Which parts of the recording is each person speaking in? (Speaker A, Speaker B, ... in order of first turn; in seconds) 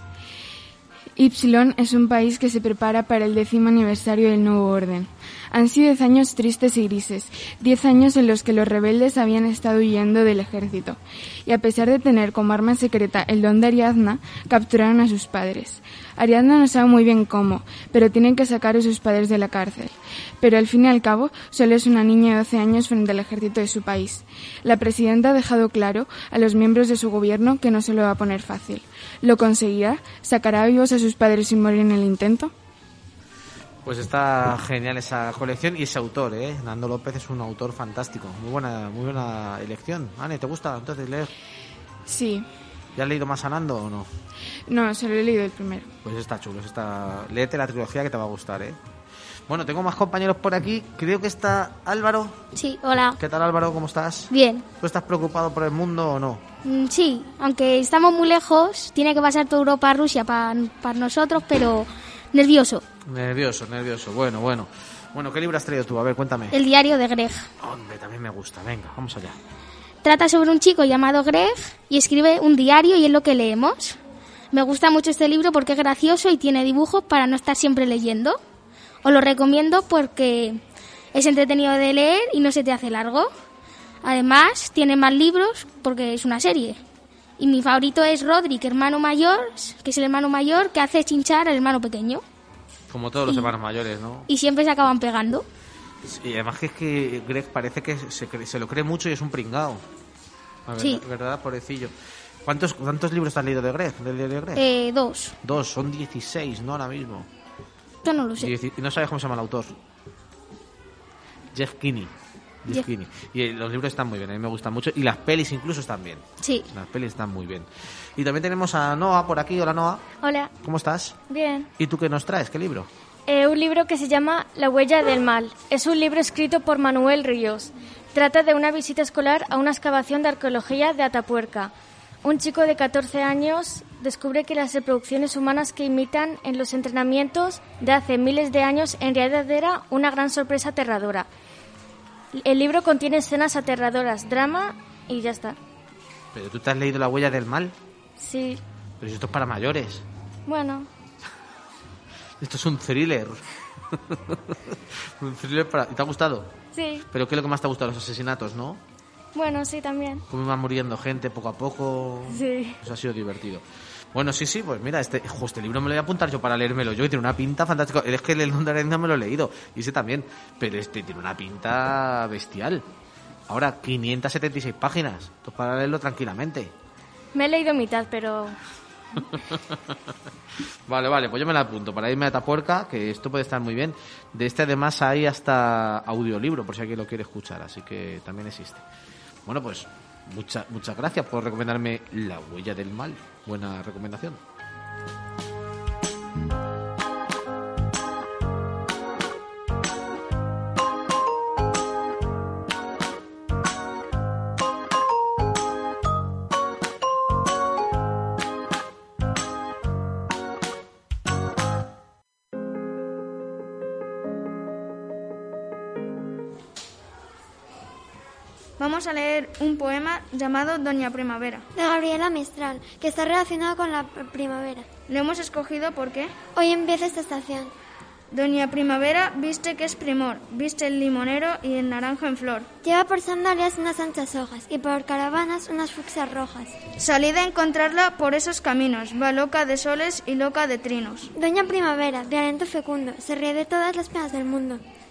Speaker A: 1.2-32.5, 42.1-42.5, 44.7-45.9
Speaker B: 33.9-41.3, 43.0-44.1, 46.0-48.8, 49.5-52.4, 53.2-56.4, 63.0-66.6, 67.6-69.4, 92.9-94.3, 96.0-99.8, 100.7-101.9, 102.5-104.6, 105.4-107.3, 108.4-109.8, 111.5-112.1, 112.7-120.1, 120.6-121.2, 121.8-122.9, 146.3-147.7, 149.0-150.1, 152.4-153.4, 153.9-156.5, 157.1-158.8, 160.3-172.8, 173.5-176.7, 179.4-179.9, 180.9-188.8, 189.5-194.4
Speaker C: 52.5-53.2, 54.3-54.6, 56.6-62.8, 66.5-67.5, 70.0-74.0, 74.5-78.4, 79.0-80.6, 81.1-83.3, 84.0-86.8, 87.4-92.2, 94.3-95.5, 104.6-105.3, 108.0-108.5, 116.4-116.7
Speaker D: 120.2-120.5, 121.3-121.7, 123.3-131.7, 132.2-141.3, 142.3-145.6, 148.2-148.6, 150.5-150.9, 156.7-157.1, 159.3-160.2, 162.3-162.8, 177.3-178.6
Speaker E: 218.8-221.7, 225.1-226.3, 228.3-232.7, 237.0-241.3
Speaker F: 221.8-224.9, 226.5-227.7, 232.8-236.8, 241.3-244.8